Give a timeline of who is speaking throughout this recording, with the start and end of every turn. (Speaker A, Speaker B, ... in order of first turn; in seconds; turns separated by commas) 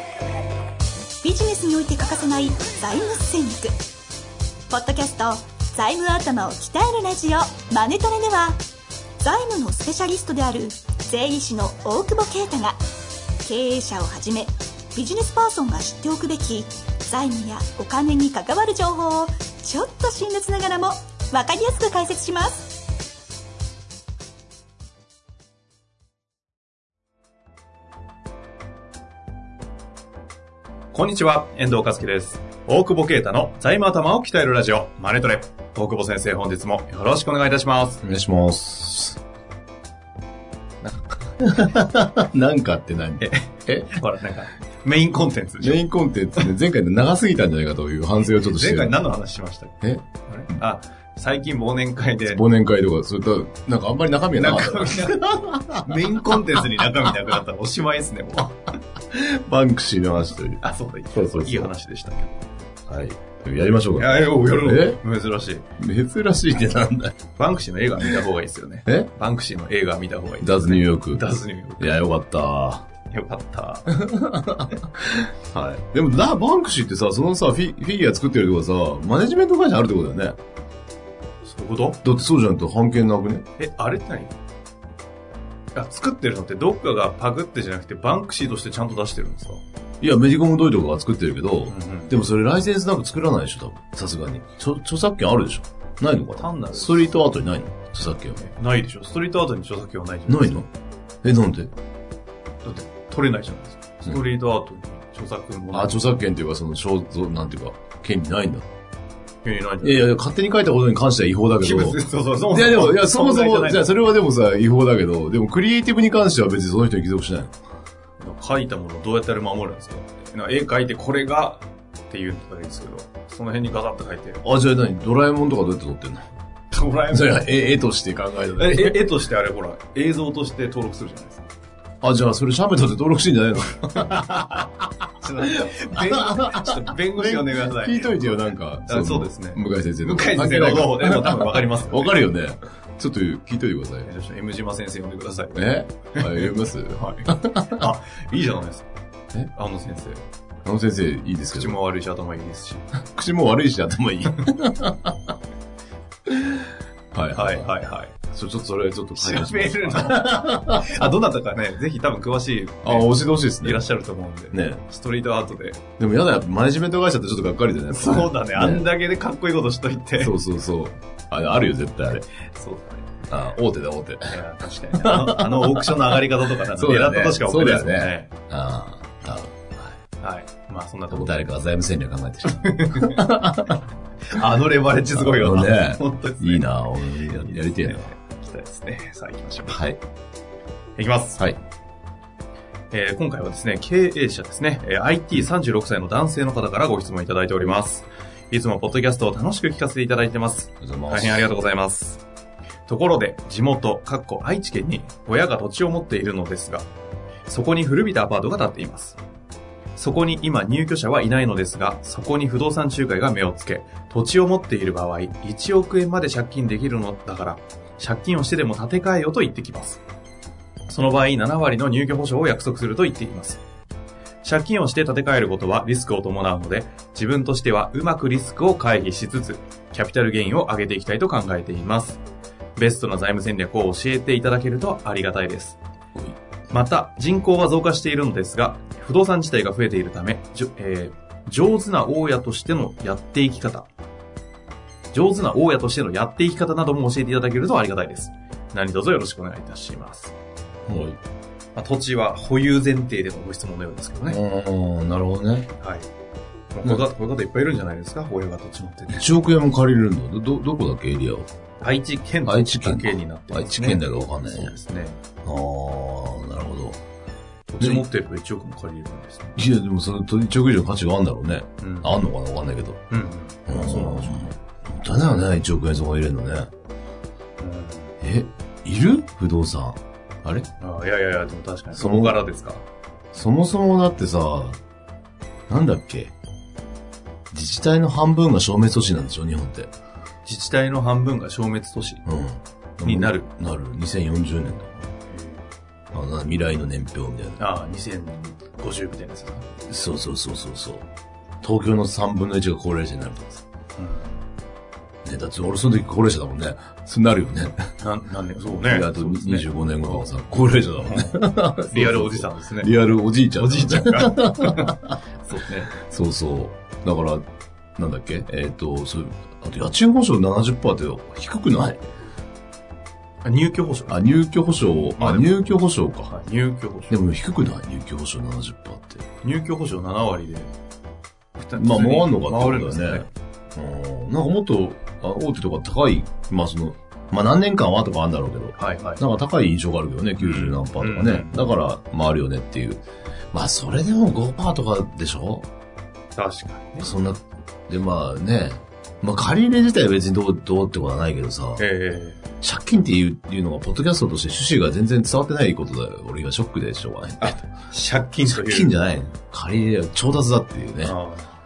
Speaker A: 1.2-3.8, Speaker A: 4.7-8.6, Speaker A: 9.2-12.8, Speaker A: 13.4-22.9, Speaker B: 30.9-38.0, Speaker C: 38.0-39.2, Speaker C: 41.4-44.0, Speaker B: 43.2-45.8, Speaker C: 45.6-49.0, Speaker B: 48.3-49.7, Speaker B: 50.3-52.4, Speaker C: 52.2-56.6, Speaker B: 54.4-58.6, Speaker C: 59.1-60.6, Speaker B: 60.6-62.5, Speaker C: 61.1-61.7, Speaker C: 62.9-65.0, Speaker B: 64.0-65.7, Speaker C: 65.8-67.1, Speaker B: 67.4-71.9, Speaker C: 70.4-71.3, Speaker C: 71.8-72.9, Speaker B: 73.1-73.9, Speaker C: 73.9-80.4, Speaker B: 81.4-82.0, Speaker C: 82.0-83.5, Speaker B: 83.6-84.3, Speaker B: 85.8-89.6, Speaker C: 90.0-98.4, Speaker B: 91.7-92.2, Speaker B: 96.4-97.2, Speaker B: 98.4-100.7, Speaker C: 100.3-100.7, Speaker C: 101.2-101.7, Speaker B: 102.7-106.1, Speaker C: 105.7-108.7, Speaker B: 109.5-110.1, Speaker C: 109.8-112.0, Speaker B: 111.6-113.9, Speaker C: 112.5-117.5, Speaker B: 118.2-124.4, Speaker C: 124.4-126.2, Speaker B: 126.7-127.4, Speaker C: 127.1-129.0, Speaker B: 128.6-131.4, Speaker C: 132.0-134.3, Speaker B: 134.0-134.7, Speaker B: 135.2-142.2, Speaker C: 136.0-144.1, Speaker B: 144.1-148.9, Speaker C: 145.5-147.8, Speaker B: 149.6-150.2, Speaker C: 150.7-151.8, Speaker B: 151.5-152.8, Speaker C: 153.0-155.3, Speaker C: 156.3-157.7, Speaker B: 157.3-158.2, Speaker C: 158.3-161.1, Speaker B: 159.2-165.8, Speaker C: 162.8-163.8, Speaker C: 164.5-164.8, Speaker C: 166.0-168.9, Speaker B: 167.9-170.3, Speaker C: 170.2-172.2, Speaker B: 172.4-173.2, Speaker C: 173.3-174.3, Speaker B: 174.3-178.3, Speaker C: 174.9-176.2, Speaker C: 176.8-179.9, Speaker B: 180.2-181.5, Speaker C: 181.1-183.8, Speaker B: 182.4-183.3, Speaker B: 184.3-186.7, Speaker C: 185.1-188.1, Speaker B: 187.5-189.8, Speaker C: 189.7-190.0, Speaker B: 191.0-191.4, Speaker B: 192.9-202.2, Speaker C: 200.8-201.5, Speaker B: 202.9-206.9, Speaker B: 207.5-209.2, Speaker B: 210.0-220.0, Speaker B: 220.9-223.6, Speaker B: 224.4-232.2, Speaker B: 232.8-235.8, Speaker B: 236.7-243.9, Speaker B: 245.1-250.3, Speaker C: 250.9-251.2, Speaker B: 251.8-254.4, Speaker C: 254.3-255.7, Speaker B: 255.8-256.1, Speaker B: 256.7-259.4, Speaker C: 259.1-261.5, Speaker B: 261.8-265.2, Speaker C: 262.4-264.7, Speaker C: 265.4-267.0, Speaker B: 267.7-269.6, Speaker C: 267.8-268.1, Speaker C: 269.6-273.0, Speaker B: 271.8-272.1, Speaker B: 273.1-274.5, Speaker C: 273.7-276.7, Speaker B: 277.6-278.1, Speaker C: 278.2-280.7, Speaker B: 280.8-282.9, Speaker C: 281.9-282.4, Speaker C: 283.4-284.8, Speaker C: 285.7-286.4, Speaker C: 287.5-289.9, Speaker B: 290.5-292.2, Speaker C: 292.2-295.1, Speaker B: 293.0-293.5, Speaker B: 295.3-295.7, Speaker C: 296.1-297.6, Speaker B: 297.6-299.7, Speaker C: 299.8-301.1, Speaker C: 301.6-303.6, Speaker B: 304.0-304.4, Speaker C: 305.2-307.9, Speaker B: 308.0-312.9, Speaker C: 308.8-315.2, Speaker B: 313.5-315.9, Speaker C: 316.0-317.4, Speaker C: 318.0-322.0, Speaker B: 323.4-324.3, Speaker C: 324.1-326.4, Speaker B: 325.1-325.8, Speaker B: 326.3-327.2, Speaker C: 327.1-329.2, Speaker B: 329.4-330.7, Speaker B: 331.6-333.3, Speaker C: 331.8-343.0, Speaker B: 338.8-339.2, Speaker B: 340.4-341.7, Speaker C: 343.5-345.7, Speaker B: 346.4-347.1, Speaker C: 347.0-351.9, Speaker B: 351.8-352.4, Speaker C: 352.6-357.6, Speaker B: 357.4-358.9, Speaker C: 358.5-361.1, Speaker B: 361.0-361.6